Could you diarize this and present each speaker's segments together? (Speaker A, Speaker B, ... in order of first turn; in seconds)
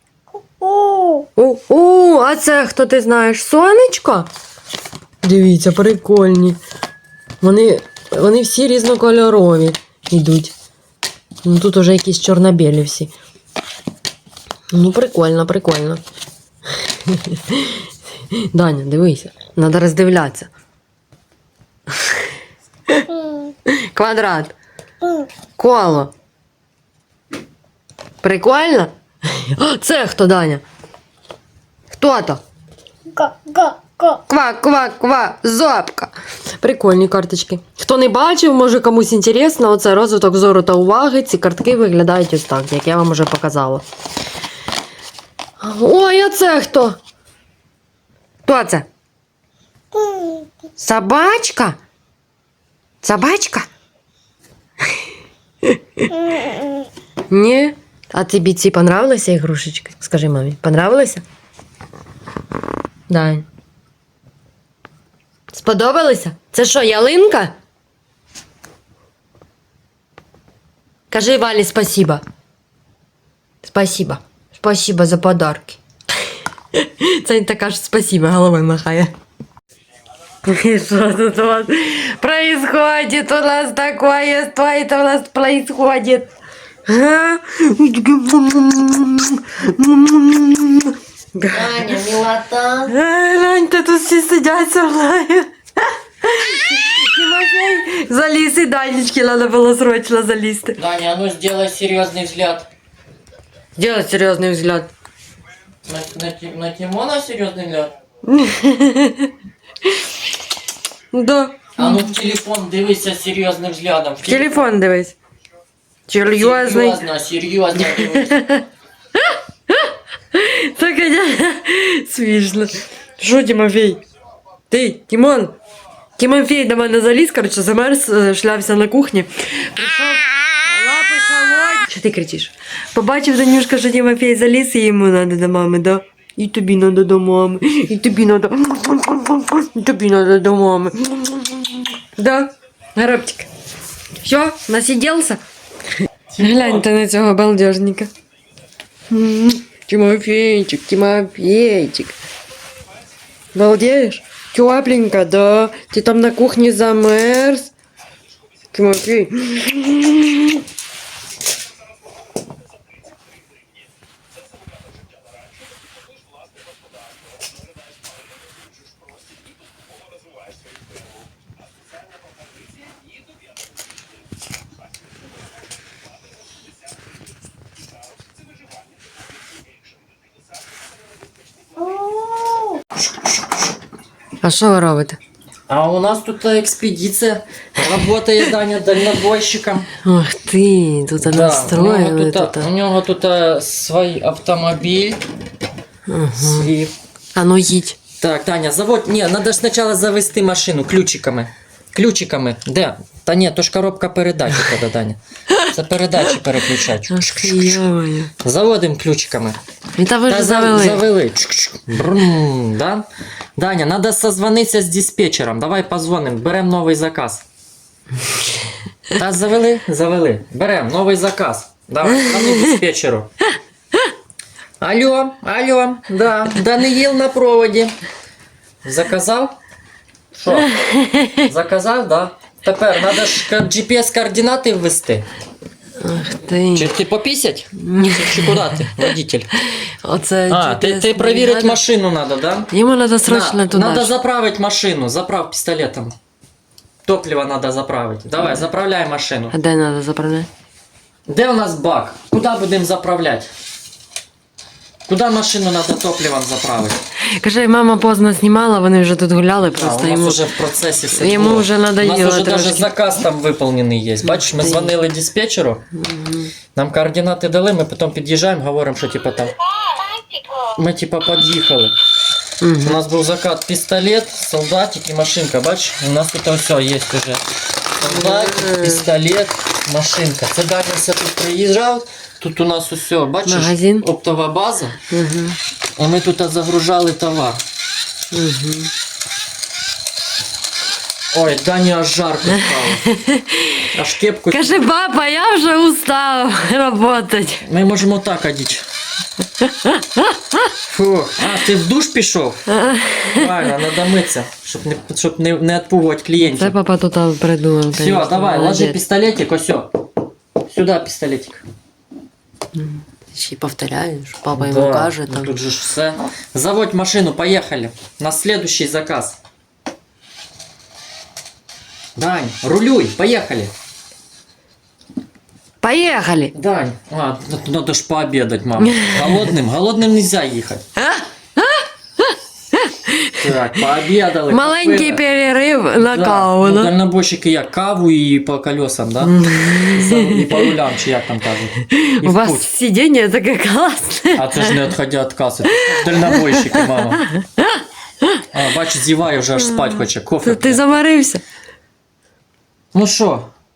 Speaker A: 1.0-4.3, 5.2-6.6, 7.4-10.5, 11.4-13.1, 14.7-16.0, 17.1-17.8, 18.3-20.5, 22.9-24.6, 25.6-26.1, 28.2-30.6, 31.9-32.4, 33.2-43.8, 45.6-47.0, 48.5-48.9, 50.8-51.8, 53.0-53.7, 55.6-56.1, 57.3-61.2, 63.1-63.5, 65.5-67.5, 71.1-72.2, 73.6-75.8, 76.7-79.1, 80.4-86.3, 86.9-92.1, 92.9-100.8, 103.8-104.9, 108.3-109.3, 111.1-111.8, 114.2-115.2, 116.1-117.0, 117.9-118.6, 119.2-124.0, 124.7-125.5, 126.2-143.5, 144.2-145.4, 146.4-148.1, 149.1-152.2, 153.5-157.7, 158.7-160.6, 184.4-185.2, 190.0-192.7, 196.1-196.7, 197.3-198.0, 207.1-208.3, 210.0-211.0, 222.3-222.8, 230.7-231.4, 236.0-236.9, 237.8-239.1, 239.8-241.8, 242.7-244.2, 249.5-250.5, 257.4-260.5, 261.1-262.9, 264.2-264.9, 266.0-266.5, 272.6-273.0, 278.1-279.1, 283.4-284.1, 285.1-285.6, 288.3-288.9, 293.0-293.9, 294.5-297.7, 299.6-300.4, 302.7-303.7, 306.4-309.0, 312.8-315.5, 325.8-326.5, 328.8-329.5, 331.0-333.5, 334.5-336.9, 339.2-340.7, 341.9-344.8, 345.7-347.8, 349.7-351.4
Speaker B: 91.5-92.9, 100.8-102.7, 105.9-107.9, 111.8-114.6, 116.3-118.4, 146.3-146.8, 182.4-183.7, 185.7-189.9, 191.2-195.2, 196.4-196.9, 198.2-207.8, 208.4-209.6, 210.3-217.4, 219.1-223.3, 224.8-227.9, 228.8-229.6, 230.3-230.7, 231.4-235.3, 236.7-239.5, 240.5-242.7, 243.2-246.1, 247.1-249.5, 251.3-253.5, 255.1-257.0, 259.7-265.8, 266.8-269.5, 270.8-271.9, 272.8-277.4, 278.0-285.0, 286.0-287.6, 291.3-293.1, 293.9-294.9, 297.6-298.9, 300.9-302.7, 303.2-306.8, 307.9-309.9, 310.7-311.6, 314.6-319.4, 322.2-323.7, 326.5-330.8, 333.4-335.2, 336.0-342.7, 344.4-347.2, 348.5-350.8, 352.9-353.5